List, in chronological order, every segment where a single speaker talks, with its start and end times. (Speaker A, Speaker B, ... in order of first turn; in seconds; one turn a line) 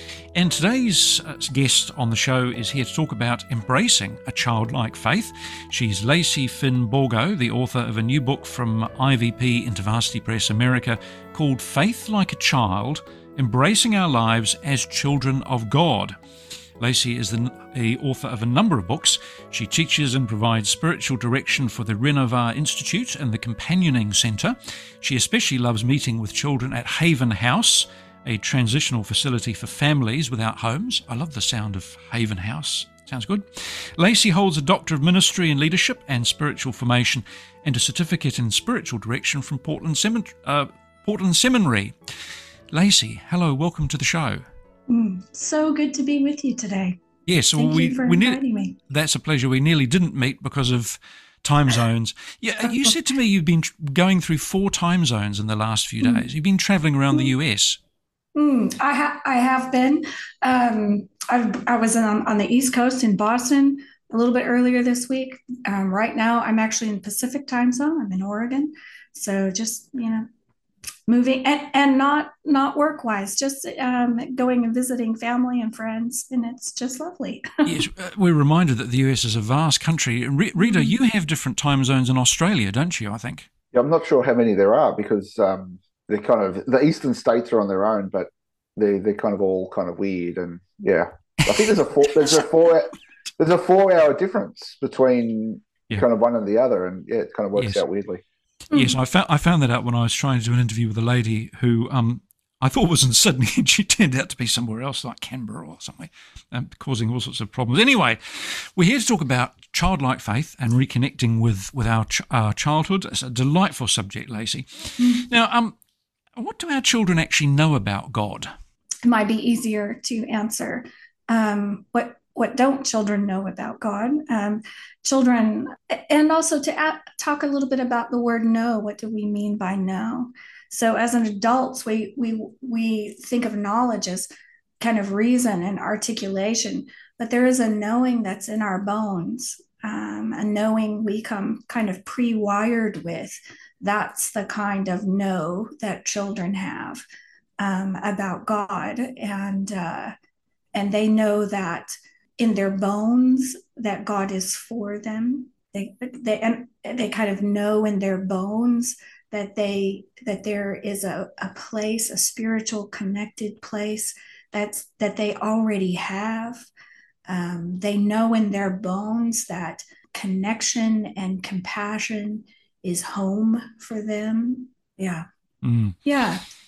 Speaker A: 0.3-16.1
Speaker A: 16.8-42.1
Speaker A: 42.7-44.4
Speaker B: 44.9-47.0
Speaker A: 47.2-57.8
Speaker B: 47.6-48.8
Speaker B: 52.6-52.9
Speaker B: 58.3-70.2
Speaker B: 71.1-77.7
Speaker A: 77.6-83.5
Speaker B: 80.6-80.9
Speaker C: 83.7-98.2
Speaker A: 97.5-97.8
Speaker A: 98.7-115.7
Speaker B: 115.0-115.3
Speaker A: 116.3-118.5
Speaker B: 119.0-134.3
Speaker B: 134.8-147.0
Speaker B: 147.6-150.1
Speaker B: 150.7-166.7
Speaker B: 167.3-175.2
Speaker A: 175.6-176.0
Speaker B: 176.0-176.4